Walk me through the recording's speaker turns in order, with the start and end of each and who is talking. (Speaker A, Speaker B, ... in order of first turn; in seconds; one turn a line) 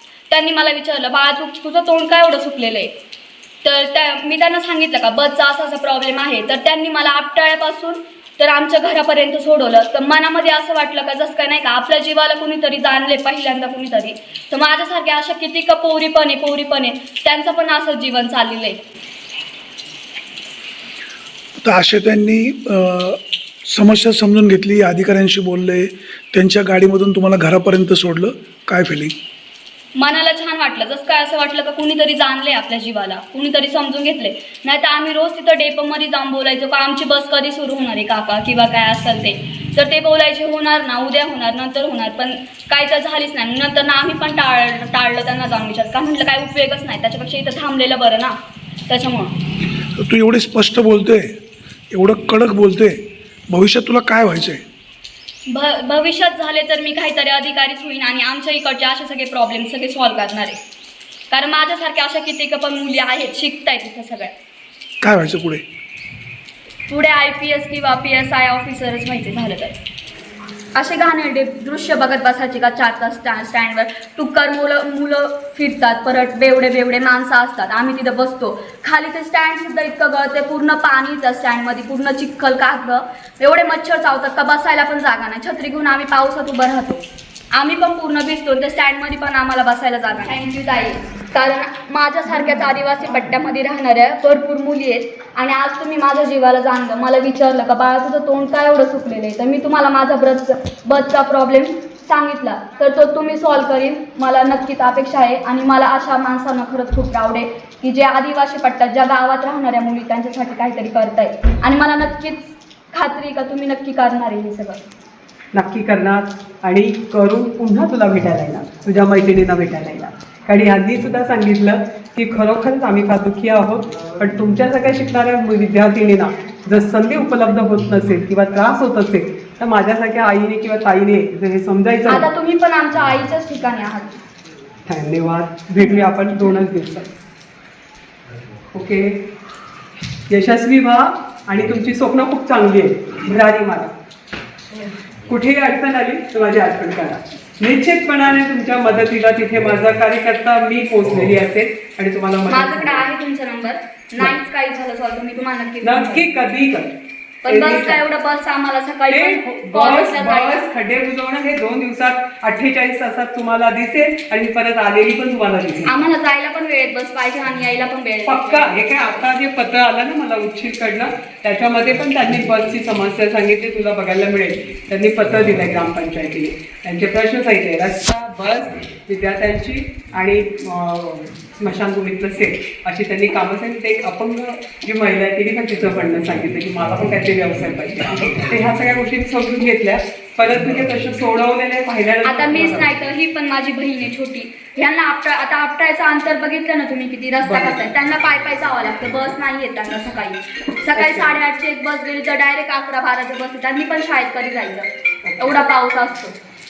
Speaker A: 0.3-2.9
Speaker A: 3.6-18.8
Speaker B: 21.6-23.2
Speaker B: 23.7-29.1
Speaker A: 29.9-48.4
Speaker A: 48.9-49.3
Speaker B: 50.0-51.3
Speaker B: 51.9-54.6
Speaker A: 55.5-60.6
Speaker A: 61.3-64.3
Speaker B: 65.0-65.6
Speaker A: 66.9-69.8
Speaker A: 70.8-87.0
Speaker A: 87.5-114.8
Speaker C: 115.5-132.3
Speaker A: 132.1-134.2
Speaker C: 134.9-137.1
Speaker C: 138.7-139.1
Speaker C: 140.3-143.9
Speaker C: 145.3-153.0
Speaker A: 152.5-156.2
Speaker C: 155.8-156.9
Speaker A: 157.4-160.6
Speaker C: 157.5-158.0
Speaker C: 159.1-166.0
Speaker A: 165.9-168.9
Speaker C: 168.3-192.9
Speaker A: 192.2-204.9
Speaker C: 197.5-197.8
Speaker C: 201.0-201.3
Speaker C: 205.2-205.6
Speaker A: 205.4-206.3